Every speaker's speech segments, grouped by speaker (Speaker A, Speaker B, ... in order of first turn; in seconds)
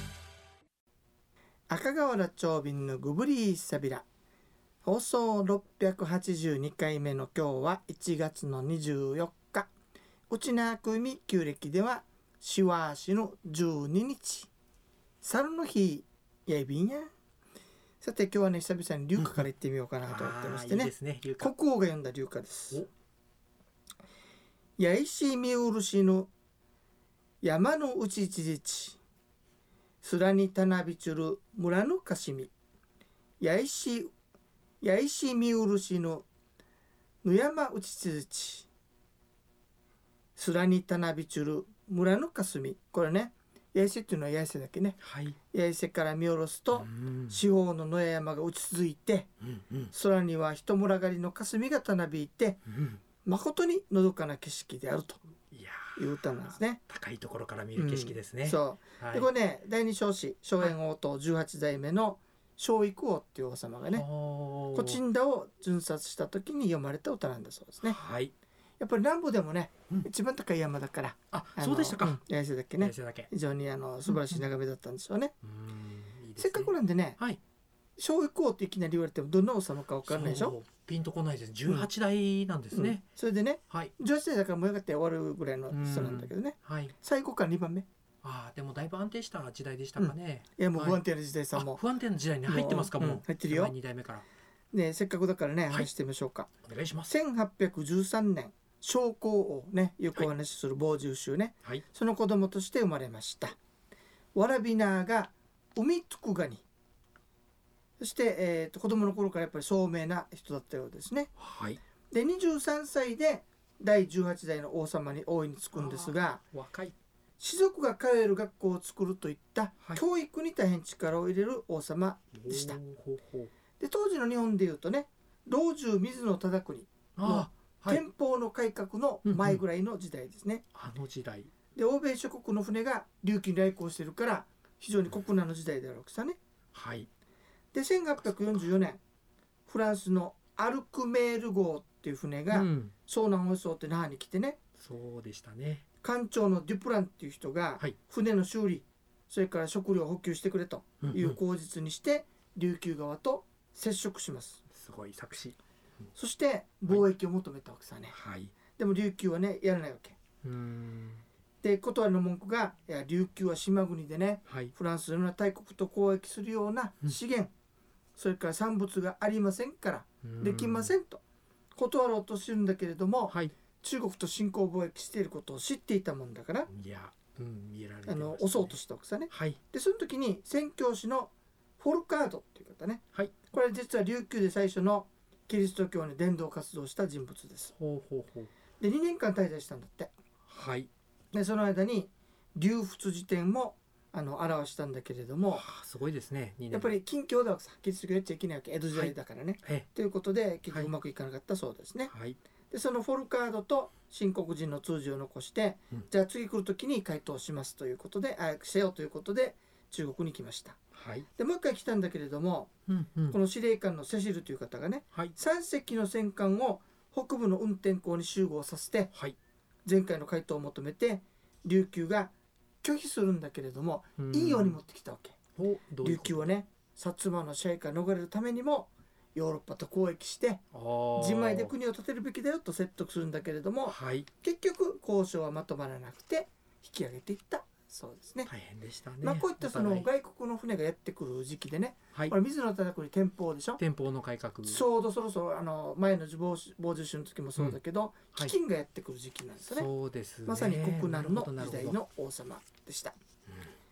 Speaker A: 1.7-4.1, 4.8-9.7, 10.3-14.5, 15.2-17.1, 18.0-22.9, 24.8-26.3, 27.4-29.0, 30.0-32.5, 33.4-34.1, 34.8-36.3, 37.2-38.7, 40.4-49.3, 49.9-52.6, 53.2-55.2, 56.0-56.8, 57.8-64.1, 64.7-68.0, 68.8-75.3, 76.4-77.2, 78.0-80.6, 82.7-87.9, 90.0-91.8, 92.5-93.8, 94.7-96.5, 97.1-103.6, 104.3-106.6, 108.0-111.3, 112.1-116.4, 117.4-122.8, 123.8-130.7, 131.8-136.4, 137.7-139.0, 139.7-144.6, 146.0-154.6, 156.2-158.2, 158.8-160.2, 161.6-167.5, 168.2-171.2, 171.8-176.7, 178.1-187.7, 188.8-190.1, 191.3-195.7, 196.7-202.1, 202.7-212.7, 213.3-219.1, 219.9-225.4, 226.0-230.6, 231.2-238.5, 239.2-243.8, 244.7-249.9, 250.5-253.2
Speaker B: 19.2-19.4, 20.0-21.5, 45.0-45.4, 46.7-47.4, 49.4-49.9, 52.7-53.0, 55.5-59.3, 63.9-65.0, 67.8-68.3, 71.3-72.2, 72.8-73.3, 74.1-74.4, 75.4-77.4, 80.1-83.0, 85.7-87.0, 88.2-91.0, 91.5-94.2, 96.7-97.2, 111.4-111.8, 115.7-116.9, 122.4-123.5, 127.2-128.0, 129.2-129.6, 130.7-131.5, 136.7-137.1, 142.5-142.9, 144.8-145.8, 151.0-151.4, 154.7-155.6, 158.1-158.5, 160.4-161.2, 164.5-164.7, 170.2-170.9, 173.3-173.5, 176.7-178.8, 179.3-179.6, 187.8-188.5, 190.5-190.9, 195.5-196.9, 198.9-199.9, 202.1-202.4, 210.9-211.3, 212.9-213.4, 224.2-224.8, 225.6-226.5, 230.7-231.7, 233.9-234.3, 238.5-240.1, 243.8-244.8, 249.6-252.0